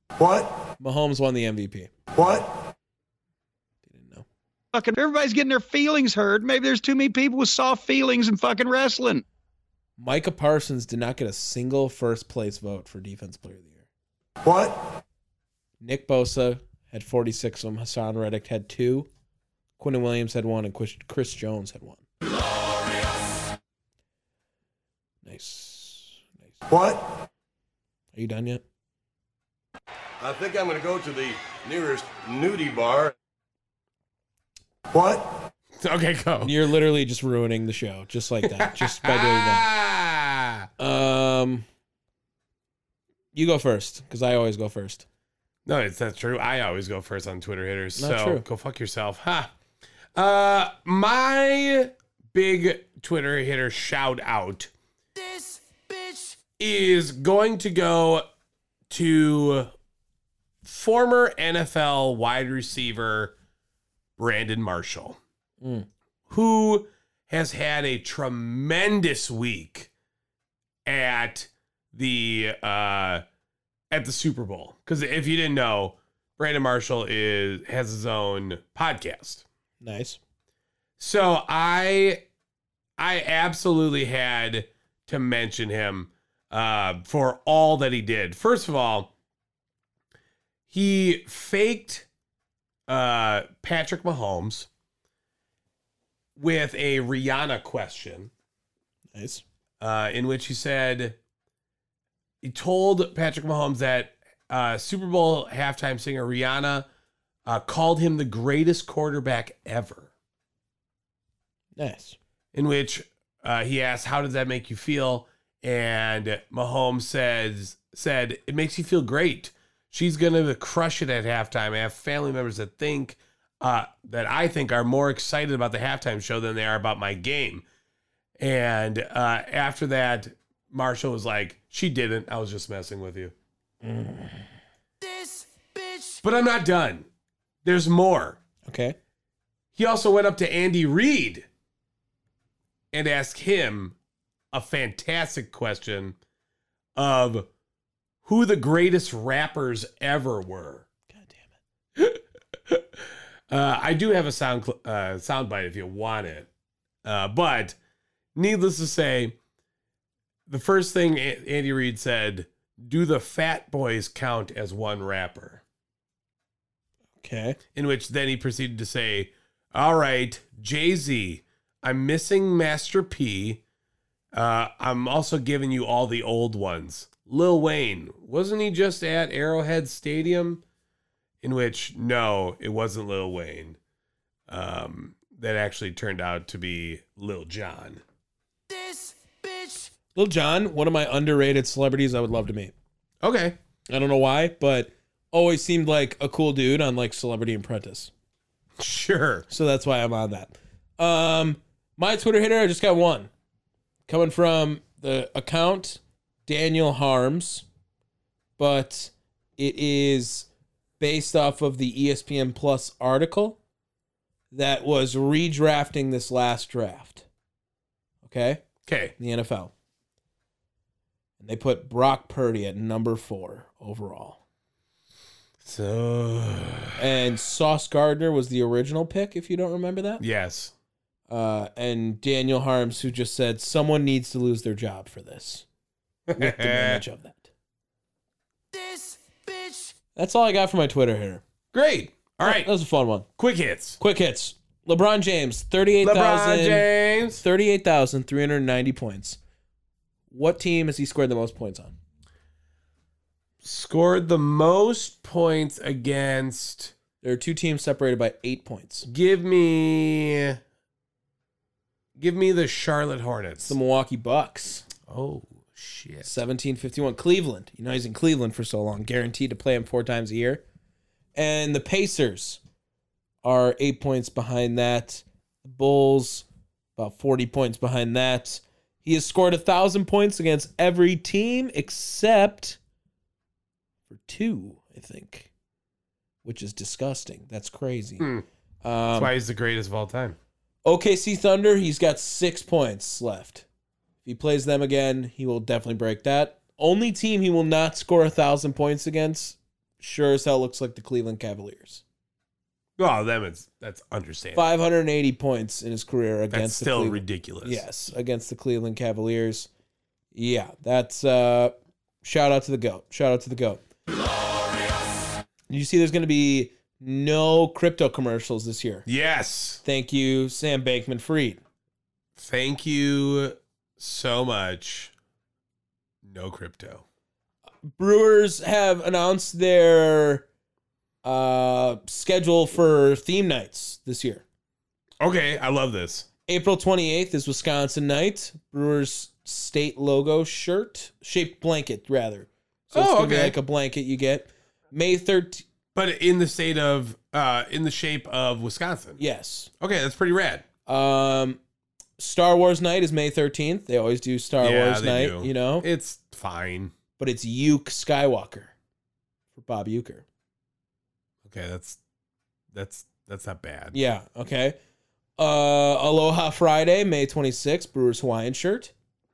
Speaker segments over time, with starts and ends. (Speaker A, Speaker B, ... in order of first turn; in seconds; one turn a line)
Speaker A: 0.2-0.6
Speaker B: 0.8-1.9
Speaker A: 2.2-2.5
Speaker B: 3.9-4.2
Speaker C: 4.7-9.2
Speaker B: 10.0-13.9
Speaker A: 14.5-14.8
Speaker B: 15.8-19.1
Speaker B: 19.8-22.0
Speaker A: 22.2-23.5
Speaker B: 25.2-26.5
Speaker A: 26.7-27.1
Speaker B: 28.1-28.6
Speaker D: 30.2-33.1
Speaker A: 34.9-35.3
Speaker E: 35.8-36.5
Speaker B: 36.4-39.7
Speaker E: 38.4-40.7
Speaker B: 40.8-41.7
Speaker B: 43.3-45.0
Speaker E: 45.7-49.5
Speaker B: 48.0-48.5
Speaker E: 50.2-54.7
Speaker E: 56.6-58.3
Speaker E: 58.9-59.7
Speaker E: 60.6-63.4
Speaker E: 64.2-65.2
Speaker B: 65.6-65.9
Speaker E: 66.3-69.9
Speaker E: 70.9-73.2
Speaker E: 73.9-79.5
Speaker B: 79.8-80.2
Speaker E: 81.0-82.2
Speaker E: 83.0-89.1
Speaker E: 90.7-92.1
Speaker E: 92.9-94.7
Speaker E: 96.4-98.3
Speaker B: 99.1-99.4
Speaker E: 99.8-101.2
Speaker E: 102.4-106.9
Speaker E: 107.5-110.1
Speaker B: 111.8-112.2
Speaker E: 112.5-127.7
Speaker E: 128.4-133.3
Speaker B: 133.8-134.5
Speaker A: 135.1-135.4
Speaker E: 136.2-137.1
Speaker E: 137.7-138.4
Speaker B: 138.7-139.0
Speaker E: 139.8-141.5
Speaker E: 142.9-144.0
Speaker E: 144.5-146.2
Speaker E: 147.0-147.5
Speaker E: 148.2-150.9
Speaker B: 151.1-151.5
Speaker E: 152.0-156.5
Speaker E: 157.0-157.8
Speaker E: 158.3-159.4
Speaker E: 160.5-165.6
Speaker B: 167.2-167.6
Speaker E: 167.8-173.6
Speaker E: 174.3-180.6
Speaker E: 181.4-183.8
Speaker E: 184.5-188.0
Speaker B: 190.1-192.7
Speaker E: 193.2-193.6
Speaker B: 193.9-198.1
Speaker E: 198.8-199.5
Speaker B: 199.5-203.3
Speaker B: 204.1-207.7
Speaker B: 208.6-210.5
Speaker B: 211.0-213.6
Speaker B: 214.5-217.2
Speaker B: 218.2-218.6
Speaker E: 218.9-219.1
Speaker B: 219.2-219.7
Speaker B: 221.4-224.4
Speaker E: 225.6-227.0
Speaker B: 227.0-230.2
Speaker E: 230.2-230.7
Speaker B: 231.3-235.7
Speaker E: 236.3-237.0
Speaker B: 236.4-237.5
Speaker A: 238.8-239.8
Speaker B: 240.2-241.4
Speaker E: 241.7-242.7
Speaker B: 242.4-243.3
Speaker E: 243.4-244.0
Speaker B: 244.0-249.4
Speaker E: 246.0-247.4
Speaker B: 250.3-252.0
Speaker E: 253.6-256.9
Speaker B: 257.2-259.1
Speaker E: 259.1-260.6
Speaker E: 262.2-263.8
Speaker B: 263.6-264.9
Speaker E: 265.1-266.4
Speaker B: 266.2-270.6
Speaker B: 271.4-272.6
Speaker B: 273.4-282.8
Speaker B: 284.1-285.5
Speaker B: 286.4-288.3
Speaker E: 288.2-288.4
Speaker B: 288.8-289.3
Speaker E: 289.1-290.4
Speaker B: 290.9-293.6
Speaker B: 294.2-302.0
Speaker E: 303.0-304.7
Speaker B: 304.6-309.7
Speaker E: 306.5-307.8
Speaker B: 310.3-313.8
Speaker A: 314.1-315.4
Speaker B: 315.7-319.1
Speaker E: 319.1-319.8
Speaker B: 319.8-321.6
Speaker E: 322.4-325.1
Speaker E: 326.2-327.0
Speaker B: 327.9-330.5
Speaker B: 331.2-334.4
Speaker E: 335.2-336.3
Speaker B: 336.5-345.6
Speaker E: 342.9-343.6
Speaker E: 345.9-349.2
Speaker B: 349.2-349.7
Speaker E: 349.8-350.6
Speaker B: 350.9-351.6
Speaker B: 352.2-355.9
Speaker E: 354.6-356.9
Speaker B: 357.2-358.7
Speaker B: 359.5-360.2
Speaker E: 361.5-362.0
Speaker E: 362.7-364.0
Speaker B: 363.9-364.8
Speaker B: 365.4-368.9